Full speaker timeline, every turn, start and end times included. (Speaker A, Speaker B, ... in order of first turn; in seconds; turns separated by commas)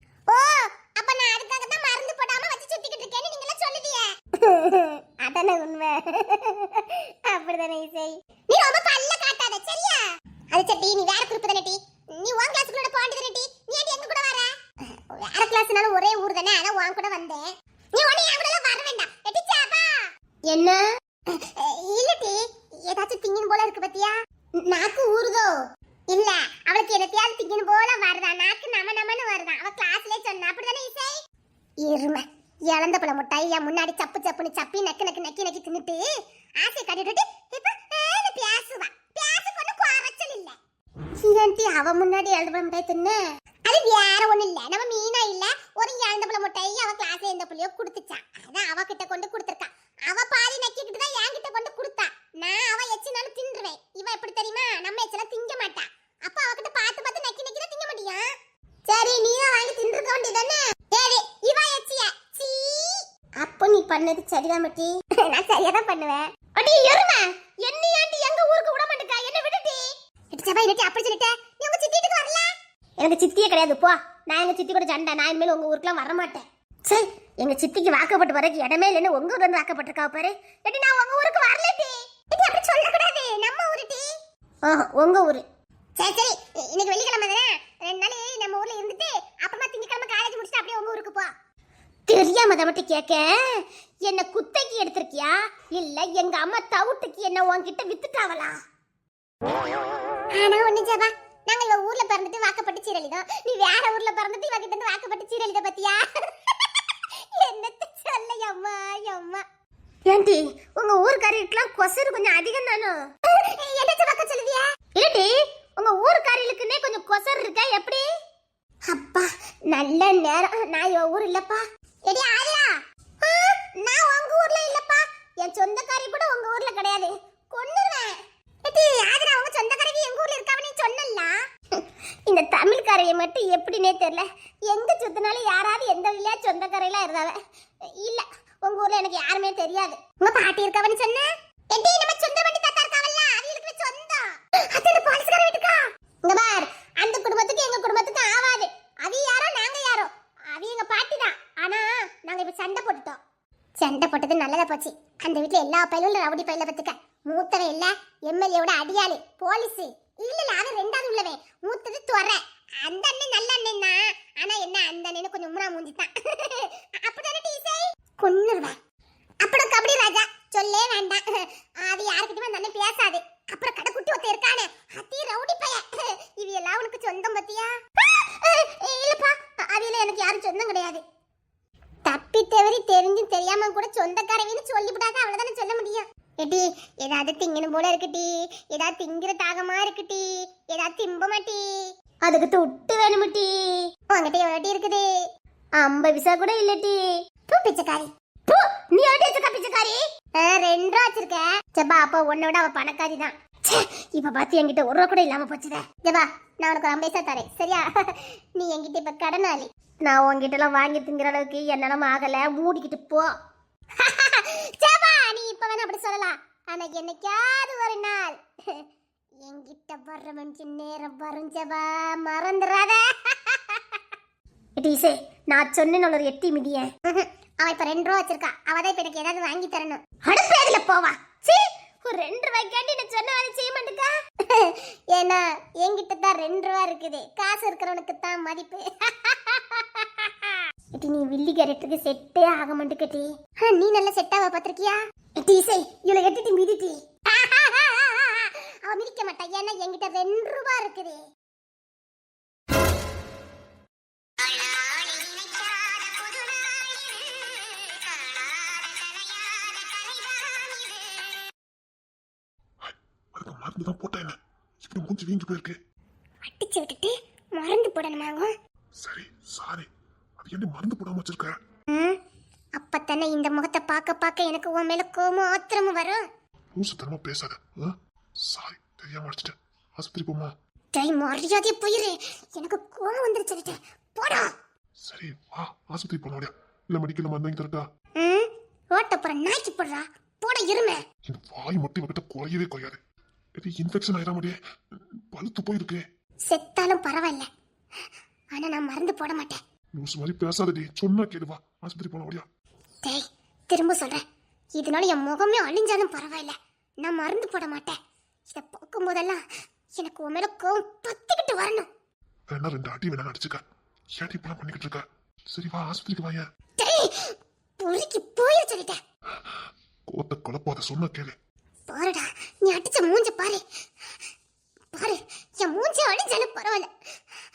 Speaker A: 0.3-24.1, Speaker A: 24.7-25.5, Speaker A: 26.1-31.2, Speaker A: 31.8-36.0, Speaker A: 36.6-40.6, Speaker A: 41.2-58.3, Speaker A: 58.9-84.1, Speaker A: 84.6-85.4, Speaker A: 86.0-91.3, Speaker A: 92.1-98.6, Speaker A: 100.3-109.4, Speaker A: 110.1-118.0, Speaker A: 118.9-122.7, Speaker A: 123.2-153.2, Speaker A: 153.8-168.8, Speaker A: 169.4-181.0, Speaker A: 182.1-195.1, Speaker A: 195.8-213.3, Speaker A: 214.0-218.8, Speaker A: 219.4-224.0, Speaker A: 224.8-251.2, Speaker A: 254.4-261.2, Speaker B: 262.8-265.8, Speaker A: 266.4-268.5, Speaker B: 269.0-271.6, Speaker A: 271.9-272.2, Speaker A: 272.8-276.2, Speaker B: 276.8-280.5, Speaker A: 280.9-284.5, Speaker B: 285.0-287.8, Speaker A: 288.2-291.0, Speaker B: 291.3-293.0, Speaker B: 293.6-296.0, Speaker A: 296.5-297.5, Speaker A: 298.5-299.6, Speaker B: 300.0-302.4, Speaker A: 303.0-304.2, Speaker A: 304.8-308.0, Speaker A: 308.5-309.4, Speaker A: 310.0-311.9, Speaker B: 312.5-313.6, Speaker B: 314.2-316.4, Speaker A: 316.8-319.0, Speaker B: 320.1-321.4, Speaker A: 321.9-323.6, Speaker A: 324.9-326.9